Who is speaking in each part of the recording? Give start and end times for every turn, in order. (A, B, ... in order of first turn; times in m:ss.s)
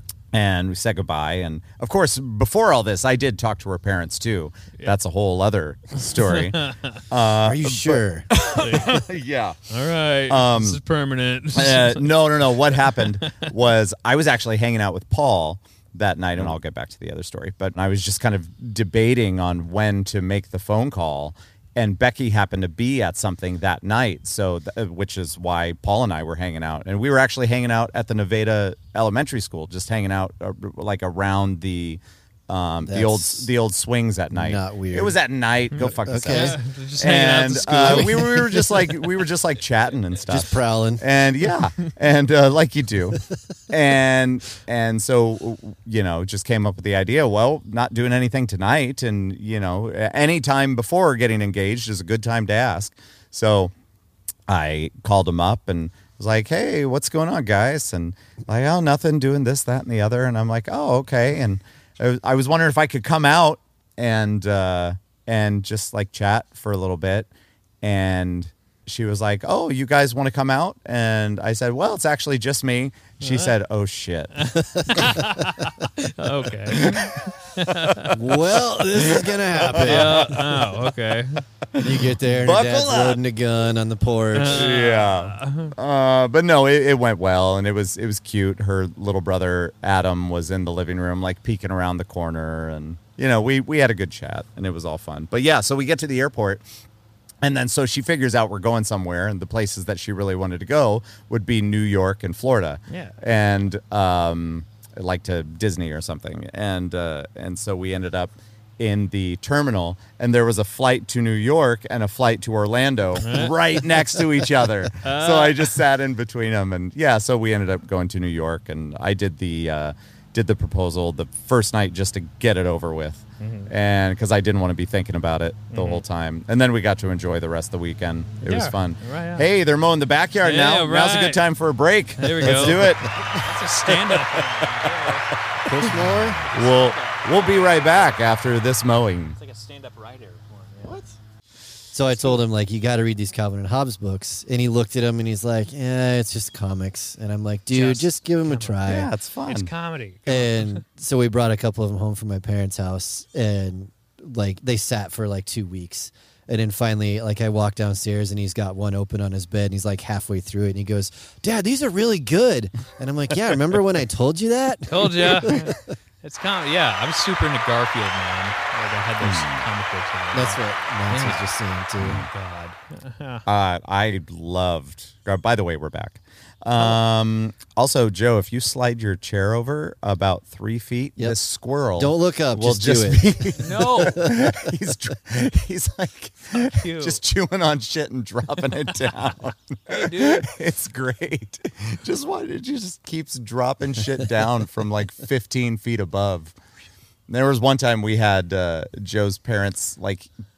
0:00.3-0:09.6 A
0:06.2-0:07.0 B
0:07.4-0:08.3 C
0:08.5-0:09.1 B
0:09.7-0:13.4 B
0:10.3-0:10.8 A
0:11.5-0:53.7 A
0:32.8-0:33.5 C
0:34.3-0:35.2 C
0:35.8-0:36.6 C
0:36.2-0:39.1 B
0:37.9-0:38.2 C
0:40.3-0:41.0 C
0:54.5-1:07.3 A
1:07.8-1:14.4 A
1:13.2-1:13.5 B
1:14.4-1:18.2 B
1:14.6-1:15.4 C
1:16.7-1:17.2 A
1:17.8-1:18.1 A
1:18.1-1:20.4 C
1:19.0-1:20.6 A
1:19.7-1:21.4 B
1:21.7-1:23.2 A
1:21.8-1:24.7 C
1:24.3-1:25.7 B
1:24.4-1:36.6 A
1:37.4-2:13.1 A
1:42.9-1:43.1 B
1:53.2-1:53.6 B
1:55.0-1:55.8 B
2:03.4-2:03.7 B
2:05.7-2:06.0 B
2:08.4-2:09.4 B
2:10.4-2:11.4 B
2:12.2-2:15.3 B
2:12.4-2:13.4 C
2:13.9-2:14.9 A
2:15.6-2:16.4 C
2:15.8-2:19.4 A
2:15.9-2:18.3 B
2:19.4-2:21.0 B
2:20.8-2:21.1 C
2:21.9-2:29.1 C
2:27.7-2:28.8 B
2:28.8-2:29.7 A
2:29.5-2:30.8 B
2:30.3-2:45.8 C
2:44.9-2:51.4 B
2:49.2-2:49.6 A
2:50.3-2:52.2 C
2:52.0-2:53.4 B
2:53.4-3:16.5 A
3:02.0-3:03.5 C
3:03.6-3:04.3 B
3:04.1-3:04.4 C
3:06.6-3:07.2 B
3:09.9-3:10.5 B
3:17.3-3:20.3 A